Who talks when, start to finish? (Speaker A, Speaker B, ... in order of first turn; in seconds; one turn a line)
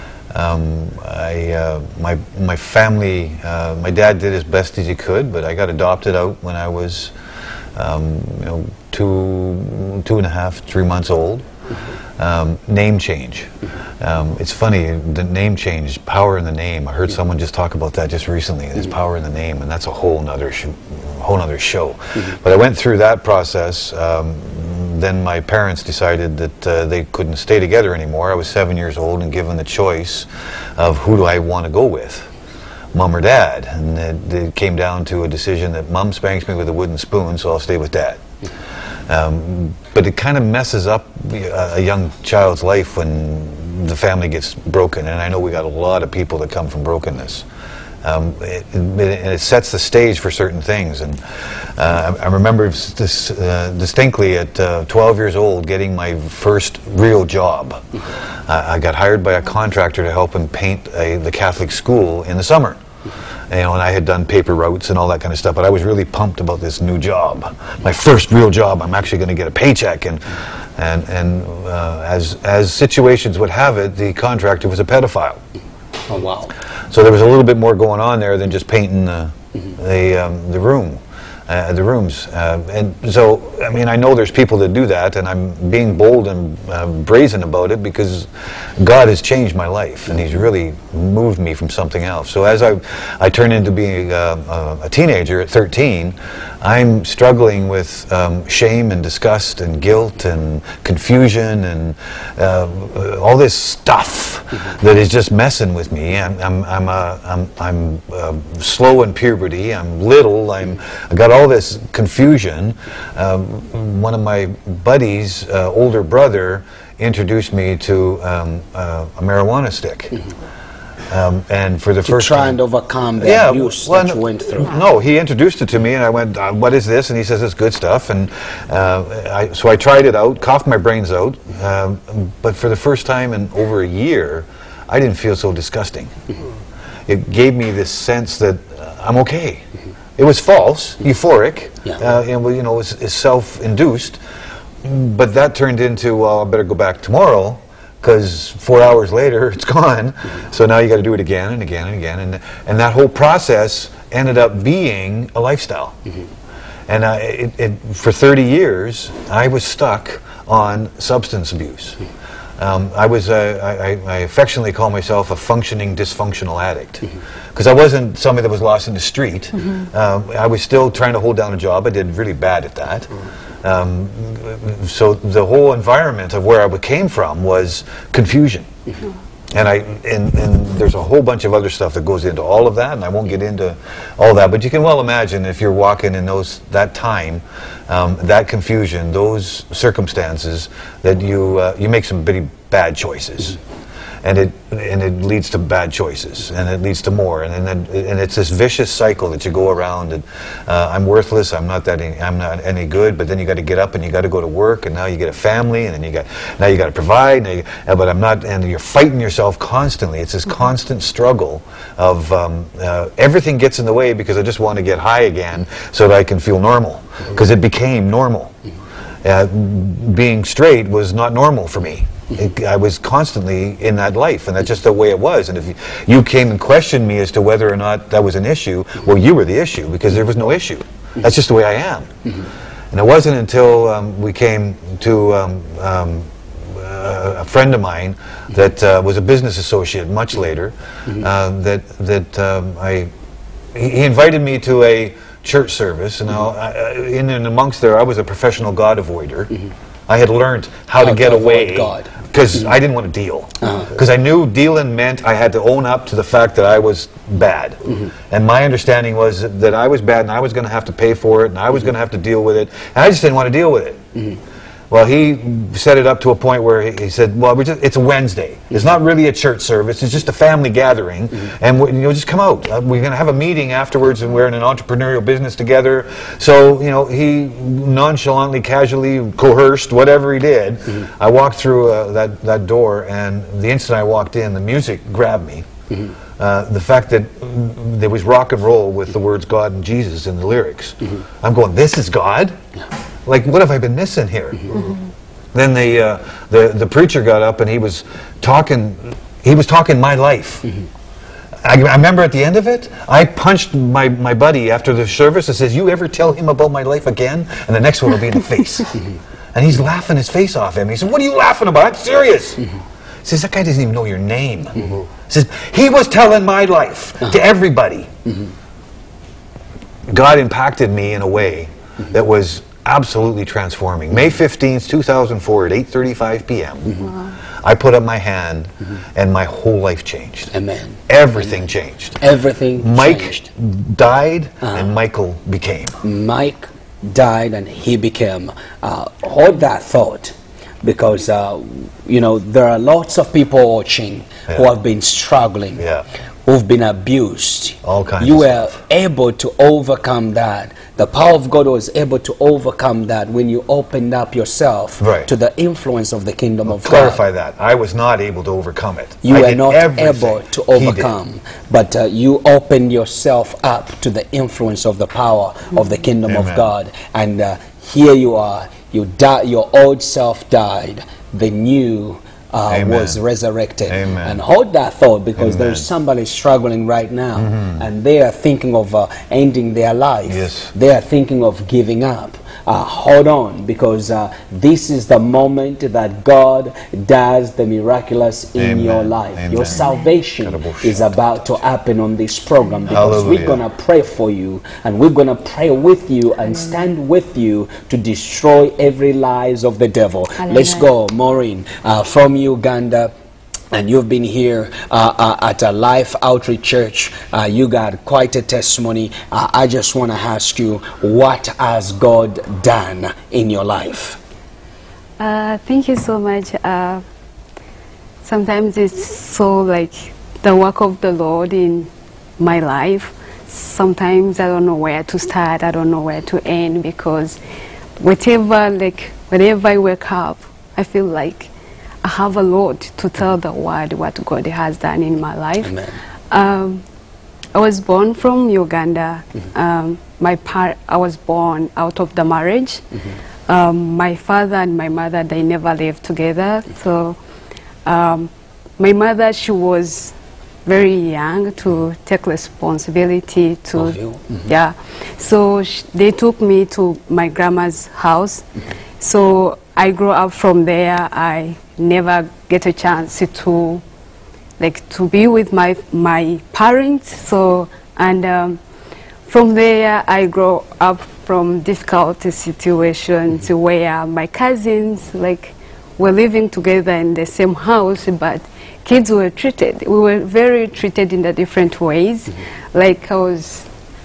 Speaker A: 0.3-7.1
Speaker A: 7.8-11.5
Speaker A: 12.2-32.3
Speaker A: 32.9-38.2
Speaker A: 39.1-47.5
Speaker A: 48.0-51.2
Speaker A: 51.8-57.8
Speaker A: 58.5-62.8
Speaker A: 63.5-75.4
Speaker B: 76.1-76.5
Speaker A: 76.9-120.2
Speaker A: 121.1-122.6
Speaker B: 122.1-124.8
Speaker A: 123.2-136.1
Speaker A: 137.1-139.6
Speaker A: 140.2-144.2
Speaker A: 144.8-155.9
Speaker A: 156.9-162.0
Speaker A: 162.6-173.1
Speaker A: 173.6-178.7
Speaker A: 179.5-193.6
Speaker A: 194.2-218.5
Speaker A: 219.2-232.1
Speaker A: 232.9-243.1
Speaker A: 243.7-249.5
Speaker A: 250.1-264.0
Speaker B: 251.0-252.1
Speaker A: 264.9-285.6
Speaker A: 286.4-292.5
Speaker A: 293.2-294.8
Speaker A: 295.5-300.7
Speaker A: 301.6-309.0
Speaker A: 309.5-312.6
Speaker A: 313.2-318.1
Speaker A: 320.1-330.5
Speaker B: 330.5-331.0
Speaker A: 331.1-332.2
Speaker B: 332.2-333.5
Speaker A: 332.8-336.0
Speaker B: 336.0-345.8
Speaker A: 345.8-346.1
Speaker B: 346.4-357.2
Speaker A: 347.8-348.8
Speaker A: 355.0-355.3
Speaker A: 356.7-361.1
Speaker B: 359.2-403.1
Speaker A: 366.3-366.7
Speaker A: 372.7-373.2
Speaker A: 373.9-374.4
Speaker A: 375.4-375.8
Speaker A: 377.4-377.8
Speaker A: 380.3-380.7
Speaker A: 388.6-389.9
Speaker A: 390.4-391.6
Speaker A: 392.9-393.6
Speaker C: 400.5-400.9
Speaker B: 403.7-414.2
Speaker C: 415.2-417.0
Speaker C: 418.2-427.4
Speaker C: 428.0-431.5
Speaker C: 432.0-435.8
Speaker B: 435.6-436.0
Speaker C: 436.3-436.8
Speaker C: 437.5-442.8
Speaker C: 443.5-447.2
Speaker C: 447.8-450.1
Speaker C: 450.6-458.4
Speaker B: 453.8-454.4
Speaker C: 459.0-463.8
Speaker C: 464.6-468.6
Speaker C: 469.3-483.6